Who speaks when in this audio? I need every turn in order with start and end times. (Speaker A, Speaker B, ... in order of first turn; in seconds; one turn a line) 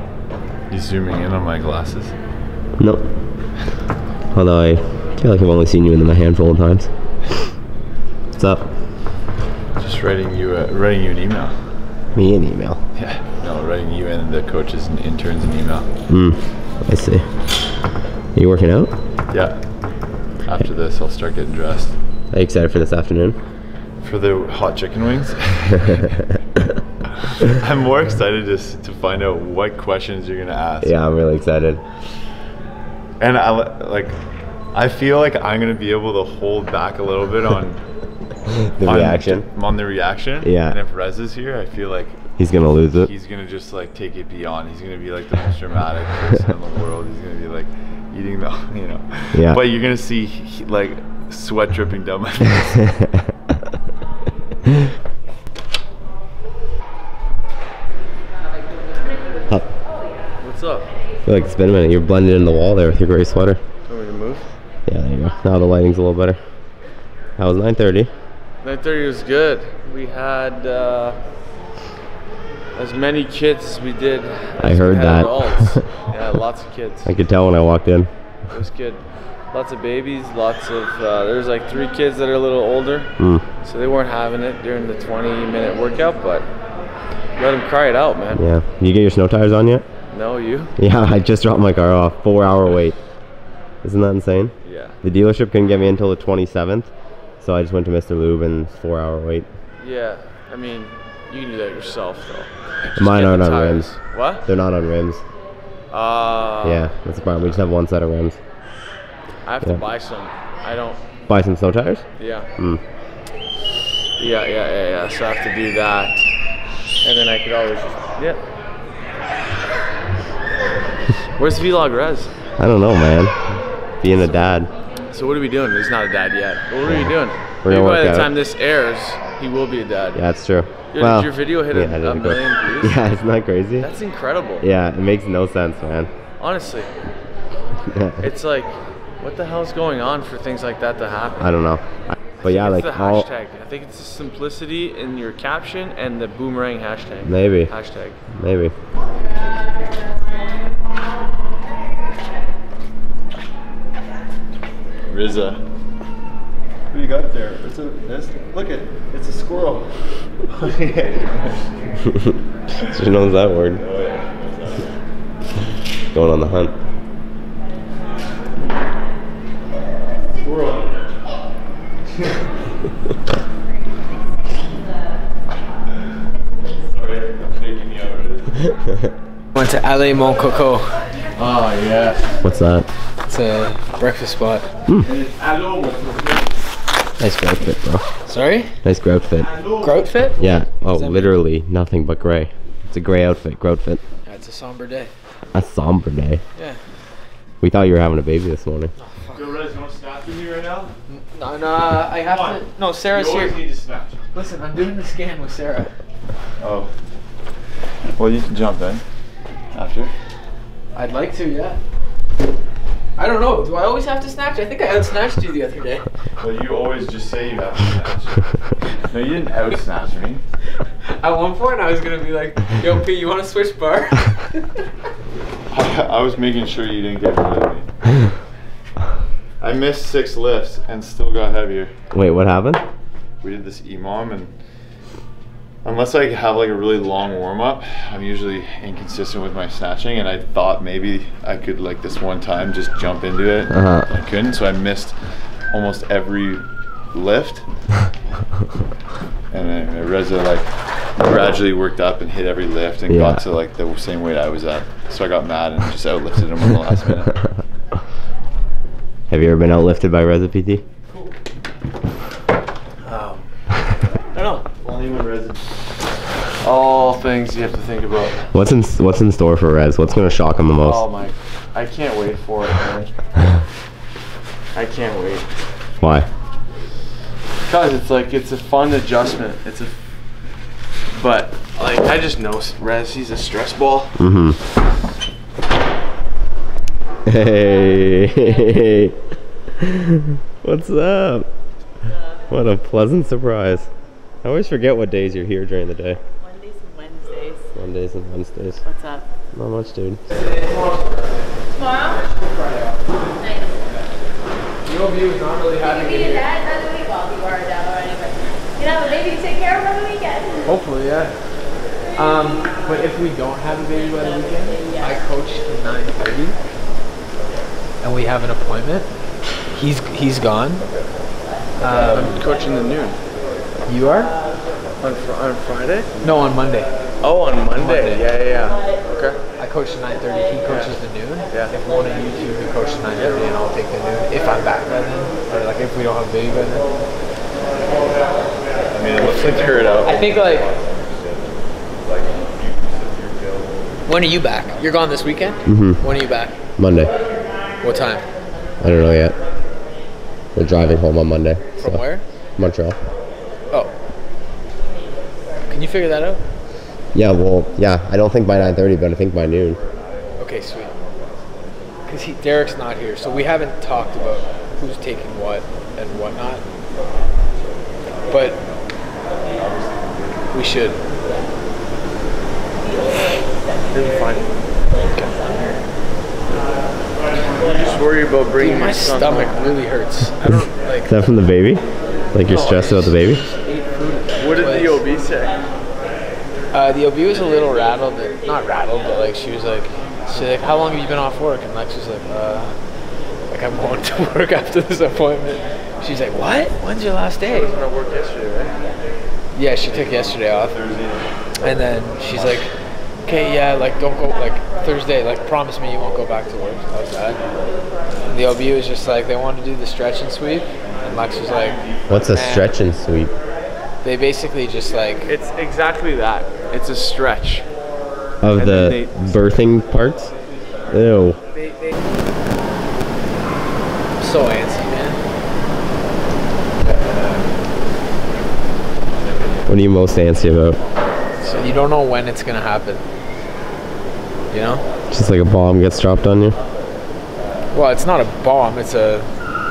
Speaker A: 0.7-2.1
Speaker B: 2.8-3.1
Speaker B: 4.3-6.9
Speaker B: 8.3-8.6
Speaker A: 9.8-11.7
Speaker B: 12.1-12.8
Speaker A: 13.0-15.9
Speaker B: 16.1-17.3
Speaker B: 18.3-18.9
Speaker A: 19.3-19.6
Speaker A: 20.4-21.9
Speaker B: 22.3-23.4
Speaker A: 24.0-26.1
Speaker A: 27.2-30.9
Speaker B: 30.8-31.8
Speaker A: 33.2-34.2
Speaker A: 34.7-37.8
Speaker B: 38.6-39.5
Speaker A: 38.8-42.3
Speaker B: 40.4-40.8
Speaker B: 42.4-43.1
Speaker A: 43.0-52.9
Speaker B: 49.3-49.6
Speaker C: 60.4-60.9
Speaker B: 61.2-63.6
Speaker C: 63.9-64.5
Speaker B: 64.9-66.4
Speaker B: 67.4-68.1
Speaker C: 68.6-71.2
Speaker C: 72.7-77.1
Speaker B: 74.6-75.9
Speaker B: 77.0-78.1
Speaker C: 78.5-86.5
Speaker B: 83.2-83.4
Speaker C: 87.4-88.4
Speaker B: 88.3-89.8
Speaker C: 90.1-90.7
Speaker B: 90.8-93.0
Speaker B: 93.8-99.5
Speaker C: 94.6-95.0
Speaker C: 99.8-104.4
Speaker B: 103.0-105.2
Speaker C: 105.9-106.9
Speaker B: 106.6-108.4
Speaker C: 109.4-111.0
Speaker B: 111.3-112.0
Speaker C: 112.2-112.5
Speaker C: 114.2-116.3
Speaker C: 117.0-118.4
Speaker C: 121.4-122.3
Speaker B: 122.6-124.7
Speaker C: 125.1-130.3
Speaker B: 126.8-127.1
Speaker B: 127.6-128.3
Speaker B: 130.1-133.9
Speaker C: 130.9-133.0
Speaker C: 133.8-134.6
Speaker B: 134.6-136.1
Speaker C: 136.4-136.9
Speaker B: 137.8-138.2
Speaker C: 138.2-141.5
Speaker B: 141.4-143.2
Speaker C: 142.4-148.2
Speaker B: 147.2-147.7
Speaker B: 148.3-148.7
Speaker A: 155.1-155.6
Speaker A: 156.9-161.6
Speaker B: 162.9-163.8
Speaker A: 163.8-164.9
Speaker B: 166.1-166.7
Speaker A: 170.3-170.9
Speaker A: 176.8-178.6
Speaker D: 179.5-181.2
Speaker C: 181.3-182.2
Speaker B: 182.4-182.9
Speaker D: 183.3-184.7
Speaker A: 185.2-186.1
Speaker B: 187.2-188.0
Speaker D: 188.2-188.7
Speaker B: 188.8-189.5
Speaker A: 189.5-189.9
Speaker D: 189.8-191.4
Speaker B: 190.4-194.0
Speaker D: 194.2-195.1
Speaker B: 195.5-196.4
Speaker B: 197.6-198.9
Speaker D: 199.0-199.4
Speaker A: 199.3-200.9
Speaker D: 201.1-203.6
Speaker A: 203.1-204.2
Speaker C: 203.1-203.7
Speaker D: 204.3-205.9
Speaker A: 206.6-206.9
Speaker A: 208.2-209.0
Speaker A: 209.7-210.1
Speaker D: 210.9-211.8
Speaker D: 213.2-216.1
Speaker A: 216.4-220.4
Speaker D: 221.1-224.8
Speaker A: 225.7-227.9
Speaker A: 229.6-231.9
Speaker B: 232.1-232.8
Speaker A: 233.4-234.5
Speaker A: 235.8-248.1
Speaker B: 243.7-244.1
Speaker A: 249.5-257.5
Speaker B: 253.1-253.4
Speaker B: 259.3-260.8
Speaker C: 263.0-263.4
Speaker C: 264.3-264.7
Speaker A: 264.8-265.6
Speaker C: 266.6-268.4
Speaker B: 268.5-271.0
Speaker C: 270.8-273.1
Speaker C: 274.7-275.5
Speaker B: 276.0-276.3
Speaker C: 277.6-280.0
Speaker C: 281.1-284.1
Speaker B: 284.2-284.6
Speaker B: 287.2-289.2
Speaker B: 289.8-291.5
Speaker B: 292.5-293.9
Speaker B: 294.4-296.2
Speaker E: 296.4-297.6
Speaker B: 297.7-298.8
Speaker E: 298.8-299.3
Speaker B: 299.5-300.2
Speaker D: 300.3-303.1
Speaker E: 301.8-302.2
Speaker E: 303.3-303.8
Speaker D: 304.8-306.5
Speaker E: 305.8-310.6
Speaker D: 310.6-311.3
Speaker D: 312.1-316.6
Speaker D: 318.0-319.1
Speaker D: 319.7-320.9
Speaker D: 321.8-322.4
Speaker C: 322.1-323.2
Speaker D: 323.9-324.3
Speaker C: 325.0-326.1
Speaker D: 326.2-326.9
Speaker C: 327.2-329.4
Speaker D: 327.8-328.2
Speaker D: 329.6-336.9
Speaker C: 330.7-330.9
Speaker C: 331.5-331.7
Speaker C: 333.2-333.5
Speaker A: 338.9-343.8
Speaker D: 340.0-340.7
Speaker D: 344.1-346.5
Speaker B: 345.6-346.0
Speaker B: 346.8-347.1
Speaker D: 347.8-348.3
Speaker B: 348.8-349.4
Speaker B: 350.5-352.0
Speaker D: 351.8-352.2
Speaker B: 352.6-353.0
Speaker D: 355.7-356.4
Speaker B: 357.1-359.8
Speaker D: 360.4-360.9
Speaker D: 362.1-366.6
Speaker D: 368.3-368.6
Speaker D: 370.5-371.0
Speaker C: 373.9-375.7
Speaker C: 377.5-379.6
Speaker D: 378.6-381.1
Speaker B: 381.1-383.4
Speaker D: 382.5-385.0
Speaker C: 382.5-382.8
Speaker C: 383.9-385.6
Speaker D: 386.7-392.8
Speaker D: 393.5-397.7
Speaker C: 397.4-398.8
Speaker D: 399.5-400.8
Speaker A: 399.9-401.2
Speaker D: 401.6-402.7
Speaker D: 403.2-407.4
Speaker D: 408.3-411.8
Speaker B: 412.1-413.3
Speaker D: 412.3-412.7
Speaker D: 414.0-415.3
Speaker C: 415.2-417.6
Speaker B: 418.4-420.3
Speaker C: 418.6-419.5
Speaker B: 420.9-421.4
Speaker D: 421.5-421.9
Speaker D: 424.2-425.2
Speaker A: 426.8-427.4
Speaker B: 429.7-430.8
Speaker D: 431.4-433.0
Speaker D: 434.5-434.8
Speaker B: 435.1-436.6
Speaker D: 437.7-439.3